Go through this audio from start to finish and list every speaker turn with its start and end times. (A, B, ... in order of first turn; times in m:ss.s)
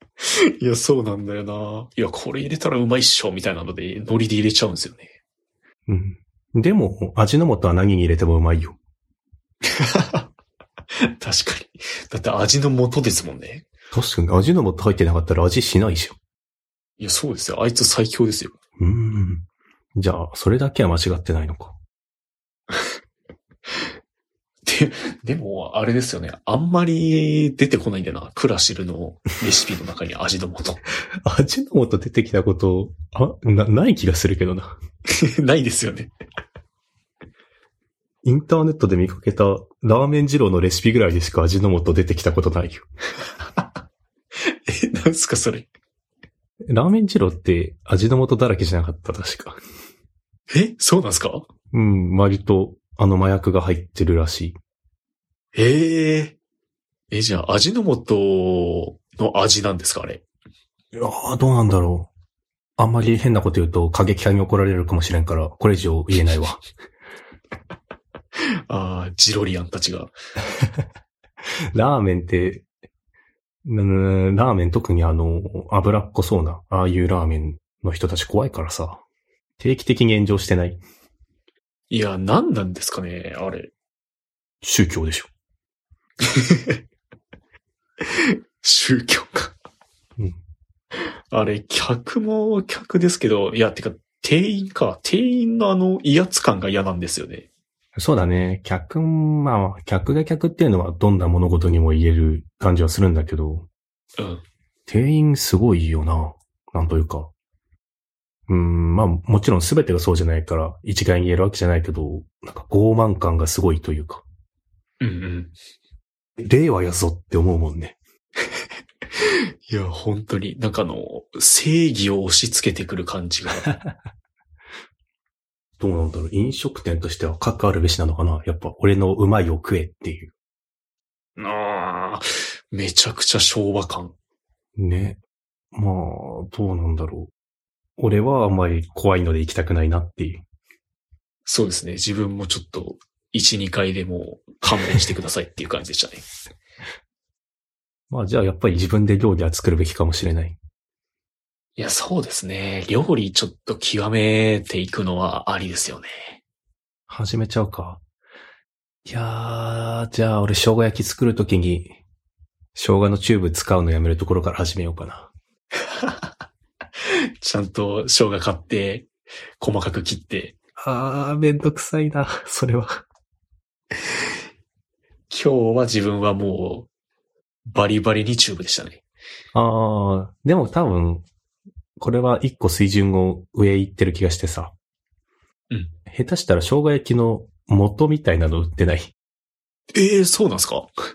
0:00.2-0:05.1 A
0:05.9-0:08.8 B
0:09.7-0:10.3 A
0:11.0-0:13.7 A
0:13.9-0:16.2 B
0:17.0-0:18.5 A
0:18.8-0:19.4 B
0:20.0-0:21.8 B
0:24.6-0:30.8 A
0:31.2-0:34.7 B
0:35.2-0:36.1 A
0:38.2-0:42.9 B
0:44.5-0:45.7 A
0:46.7-0:49.6 B
0:50.5-0:51.5 A
0:51.7-0:54.6 B
0:55.6-0:56.4 A
0:57.1-1:00.2 A
1:00.9-1:02.1 B
1:02.8-1:06.6 B
1:08.7-1:10.2 A
1:11.7-1:12.7 B
1:13.7-1:19.0 B
1:19.6-1:20.8 B
1:21.9-1:23.7 A
1:24.6-1:25.3 B
1:26.2-1:26.8 A
1:28.0-1:29.6 A
1:31.3-1:37.5 A
1:38.0-1:43.7 B
1:44.2-1:44.4 A
1:44.9-1:47.3 B
1:48.5-1:54.2 B
1:55.0-1:55.5 A
1:56.4-1:58.0 B
1:59.2-2:03.7 A
2:05.8-2:10.3 B
2:11.4-2:14.1 A
2:14.8-2:15.2 B
2:15.7-2:17.3 B
2:18.0-2:20.4 B
2:21.5-2:26.2 A
2:28.1-2:30.6 B
2:31.8-2:36.4 A
2:37.1-2:38.0 B
2:39.1-2:41.9 B
2:42.8-2:45.3 B
2:46.0-2:46.3 A
2:47.4-2:50.6 A
2:50.8-2:53.0 B
2:55.3-2:56.9 A
2:57.7-2:59.0 A
2:59.5-3:01.2 B
3:02.0-3:04.7 B
3:06.1-3:09.1 B
3:09.9-3:10.9 A